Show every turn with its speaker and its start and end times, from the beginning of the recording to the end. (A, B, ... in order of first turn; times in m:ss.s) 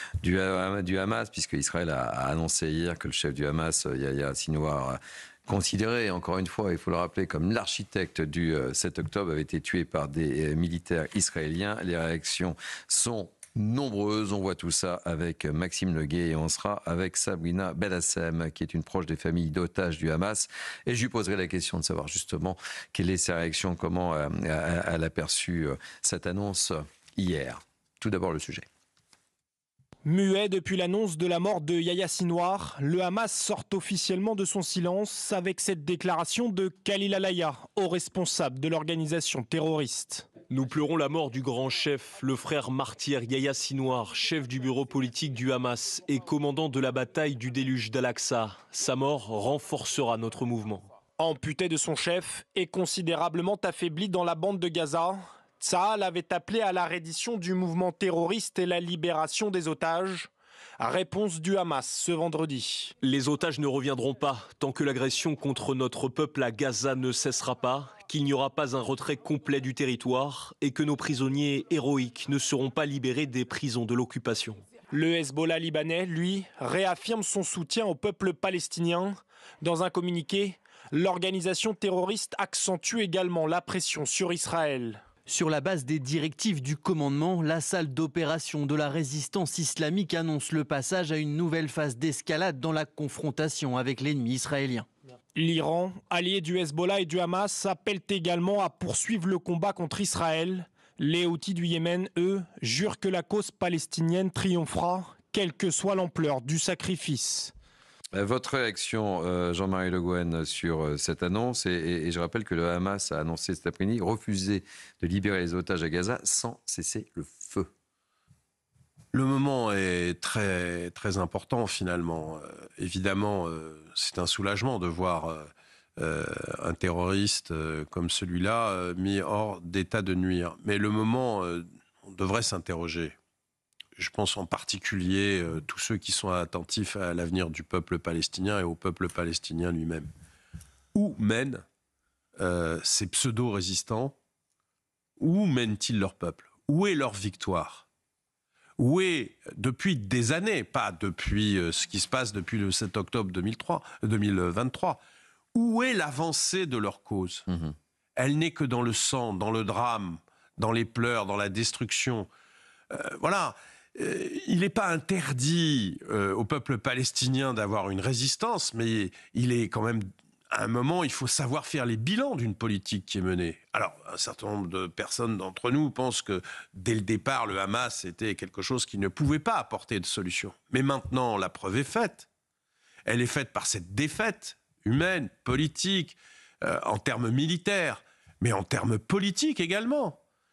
0:00.2-0:28.6 A
0:30.0-0:40.3 B
0:40.4-0:50.9 C
0:51.2-1:02.9 B
1:03.0-1:14.6 C
1:14.9-1:25.0 B
1:25.2-1:34.9 D
1:35.3-1:47.5 B
1:48.1-1:57.7 A
1:59.1-2:13.2 E
2:14.0-2:20.1 E
2:20.9-2:21.6 E
2:22.4-2:24.1 E
2:25.2-2:27.8 E
2:28.8-2:35.0 E
2:35.5-2:37.5 E
2:38.2-2:42.3 E
2:42.9-3:02.3 E
3:03.0-3:10.2 E